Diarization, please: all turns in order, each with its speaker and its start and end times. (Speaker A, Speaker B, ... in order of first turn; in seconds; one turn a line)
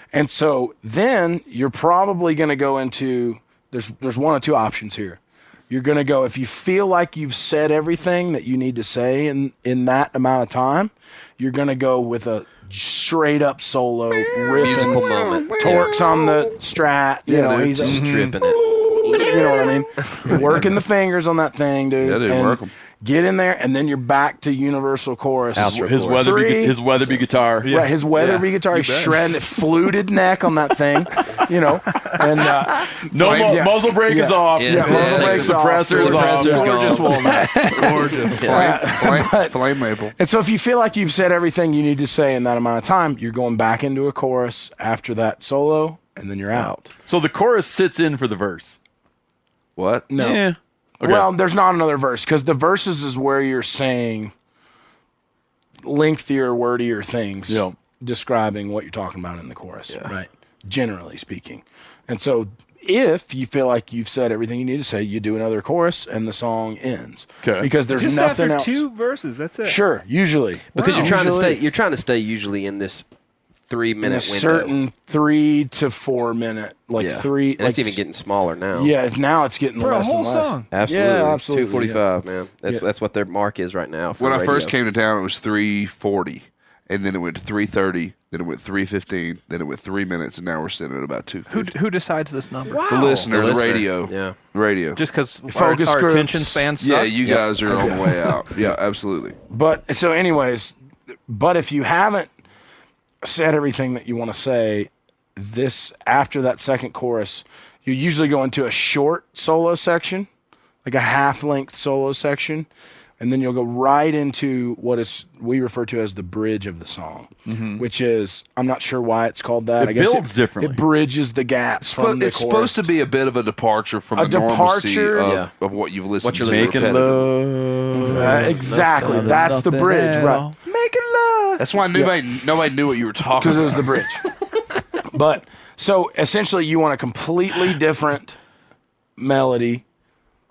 Speaker A: 0.1-15.1
Speaker B: 14.2-16.5
Speaker C: 14.6-15.9
Speaker A: 15.6-18.1
Speaker B: 17.3-17.9
Speaker C: 17.6-19.4
Speaker D: 17.8-18.4
Speaker B: 18.5-19.7
Speaker A: 19.1-26.8
Speaker C: 20.1-20.6
Speaker B: 22.0-22.7
Speaker C: 25.6-26.4
Speaker D: 25.6-27.8
Speaker A: 27.6-39.6
Speaker E: 28.7-29.0
Speaker D: 33.0-37.0
Speaker B: 33.1-33.6
Speaker C: 34.6-37.5
Speaker B: 35.0-35.4
Speaker E: 36.4-38.5
Speaker C: 38.3-38.8
Speaker B: 38.4-40.1
Speaker A: 40.1-46.9
Speaker D: 47.1-48.8
Speaker B: 49.8-50.1
Speaker A: 50.1-50.4
Speaker D: 50.1-51.3
Speaker A: 51.0-54.3
Speaker A: 55.8-68.8
Speaker D: 57.5-57.8
Speaker D: 67.4-67.7
Speaker F: 67.9-69.8
Speaker A: 69.6-71.6
Speaker F: 70.8-71.1
Speaker C: 70.8-73.1
Speaker C: 73.7-74.7
Speaker A: 74.0-78.0
Speaker C: 77.0-78.9
Speaker A: 78.7-82.0
Speaker F: 79.8-80.7
Speaker C: 80.7-84.7
Speaker B: 84.2-91.7
Speaker E: 91.5-93.3
Speaker C: 92.7-94.3
Speaker B: 92.9-95.0
Speaker E: 95.0-97.8
Speaker A: 95.5-96.7
Speaker B: 96.8-99.4
Speaker C: 97.2-98.0
Speaker A: 97.7-98.0
Speaker A: 99.5-100.7
Speaker A: 101.3-102.3
Speaker A: 103.2-110.3
Speaker A: 110.8-112.7
Speaker A: 113.2-122.8
Speaker D: 117.5-117.8
Speaker D: 119.8-120.8
Speaker B: 121.8-127.3
Speaker A: 124.1-125.3
Speaker C: 125.2-125.5
Speaker C: 126.2-127.1
Speaker D: 126.3-130.6
Speaker A: 128.0-130.5
Speaker C: 128.0-129.4
Speaker B: 131.6-134.0
Speaker A: 131.9-132.2
Speaker A: 133.4-134.2
Speaker A: 135.0-138.4
Speaker A: 139.2-139.8